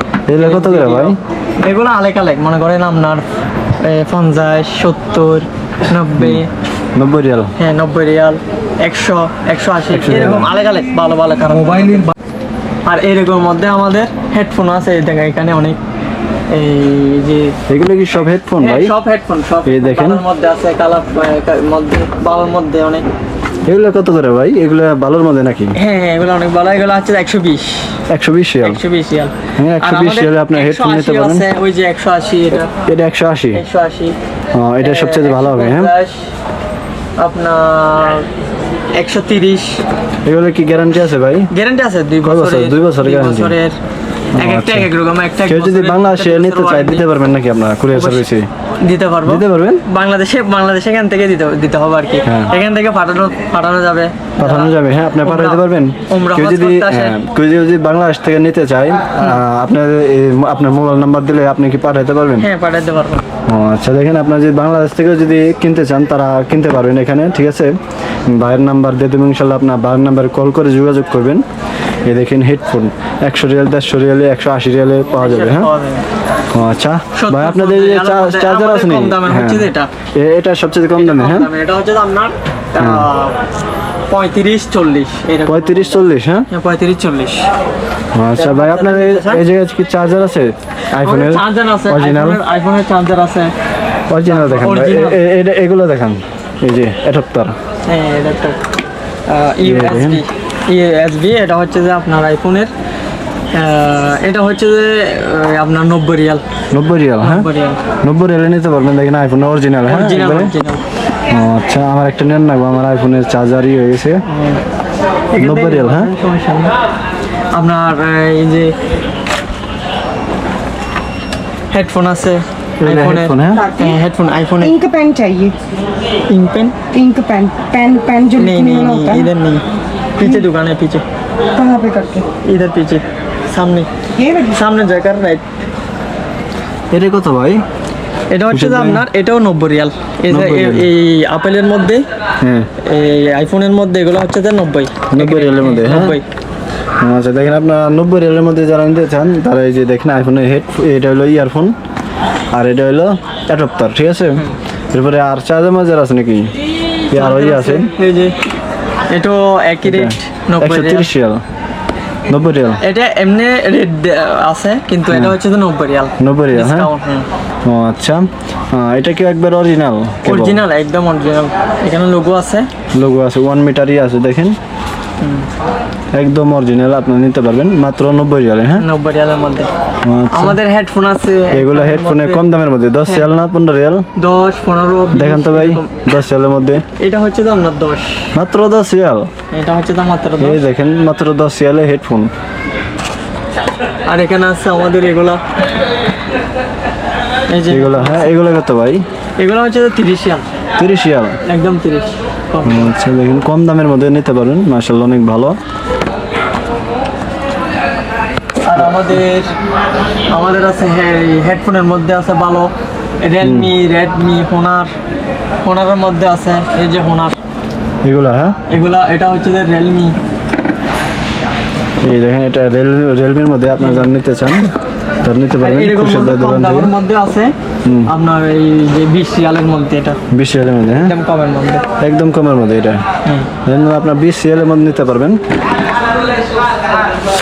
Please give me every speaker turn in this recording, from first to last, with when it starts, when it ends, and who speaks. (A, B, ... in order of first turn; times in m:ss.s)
0:00.3-0:01.2 A
0:00.4-0:03.3 B
0:03.8-0:06.5 B
0:07.0-0:07.5 A
0:07.6-0:12.1 B
0:09.9-0:10.5 A
0:12.8-0:15.8 B
0:16.5-0:17.6 B
0:17.7-0:19.0 A
0:18.6-0:23.1 B
0:19.7-0:20.2 A
0:23.7-0:25.8 A
0:25.8-0:28.0 B
0:28.1-0:28.8 A
0:28.6-0:32.7 B
0:29.6-0:31.5 A
0:32.9-0:33.6 A
0:33.5-0:34.2 B
0:34.5-0:35.9 A
0:34.8-0:36.3 B
0:37.2-0:38.3 B
0:38.9-0:39.8 B
0:40.3-0:41.5 A
0:41.5-0:43.8 B
0:42.2-0:43.6 A
0:44.4-0:44.9 A
0:44.4-0:47.1 B
0:45.4-0:48.5 A
0:47.9-0:48.3 B
0:48.8-0:57.2 B
0:49.3-0:49.8 A
0:52.2-0:52.5 A
0:54.4-1:02.5 A
1:02.4-1:03.2 B
1:03.5-1:07.8 A
1:08.3-1:11.4 A
1:12.1-1:15.7 A
1:15.1-1:16.1 B
1:16.5-1:21.5 A
1:17.2-1:19.9 B
1:21.0-1:23.4 B
1:22.8-1:23.1 A
1:24.1-1:27.5 B
1:25.5-1:26.5 A
1:28.2-1:32.4 A
1:28.4-1:29.4 B
1:31.0-1:33.5 B
1:34.1-1:37.6 A
1:34.3-1:35.2 B
1:37.9-1:38.6 B
1:39.3-1:42.7 B
1:39.6-1:40.2 A
1:43.5-1:46.4 B
1:46.7-1:47.5 A
1:47.2-1:47.8 B
1:48.0-1:50.5 A
1:49.9-1:50.8 B
1:51.3-1:54.2 A
1:54.3-1:54.6 B
1:55.3-1:56.7 B
1:55.4-1:56.1 A
1:57.5-1:58.8 B
2:01.7-2:04.8 B
2:02.8-2:03.6 A
2:03.6-2:04.0 C
2:04.6-2:05.6 C
2:06.3-2:06.8 B
2:06.9-2:09.3 C
2:08.4-2:09.6 B
2:10.2-2:11.0 B
2:11.6-2:12.3 C
2:12.4-2:13.9 B
2:14.2-2:14.6 C
2:14.5-2:15.4 B
2:16.9-2:17.6 A
2:18.3-2:22.1 B
2:18.5-2:19.0 A
2:20.3-2:20.9 A
2:22.4-2:22.7 A
2:22.8-2:26.2 B
2:25.1-2:26.2 A
2:27.0-2:31.8 A
2:32.5-2:36.5 A
2:37.1-2:37.9 A
2:37.1-2:38.4 B
2:39.1-2:41.1 B
2:39.8-2:41.4 A
2:42.3-2:42.8 A
2:42.8-2:47.3 B
2:46.2-2:46.9 A
2:47.7-2:50.6 A
2:50.2-2:52.7 B
2:52.9-2:54.6 A
2:55.2-2:55.5 B
2:56.1-2:58.9 A
2:58.8-2:59.7 B
3:00.0-3:00.6 A
3:00.3-3:02.4 B
3:01.5-3:04.1 A
3:04.2-3:06.1 B
3:05.1-3:06.9 A
3:07.0-3:08.3 B
3:08.3-3:09.3 A
3:09.5-3:10.6 B
3:10.4-3:12.3 A
3:14.1-3:15.4 B
3:17.5-3:18.4 B
3:17.7-3:19.0 A
3:19.4-3:20.5 B
3:20.8-3:21.4 A
3:21.4-3:22.9 B
3:22.6-3:25.6 A
3:28.6-3:29.5 B
3:30.3-3:34.9 B
3:33.4-3:33.7 A
3:35.6-3:37.4 B
3:38.0-3:38.6 A
3:38.7-3:40.2 B
3:42.0-3:44.7 A
3:43.8-3:44.1 B
3:45.2-3:46.9 A
3:45.6-3:47.5 B
3:47.8-3:48.1 A
3:48.1-3:50.2 B
3:50.3-3:51.1 A
3:51.0-3:51.8 B
3:52.0-3:53.0 A
3:53.6-3:55.4 A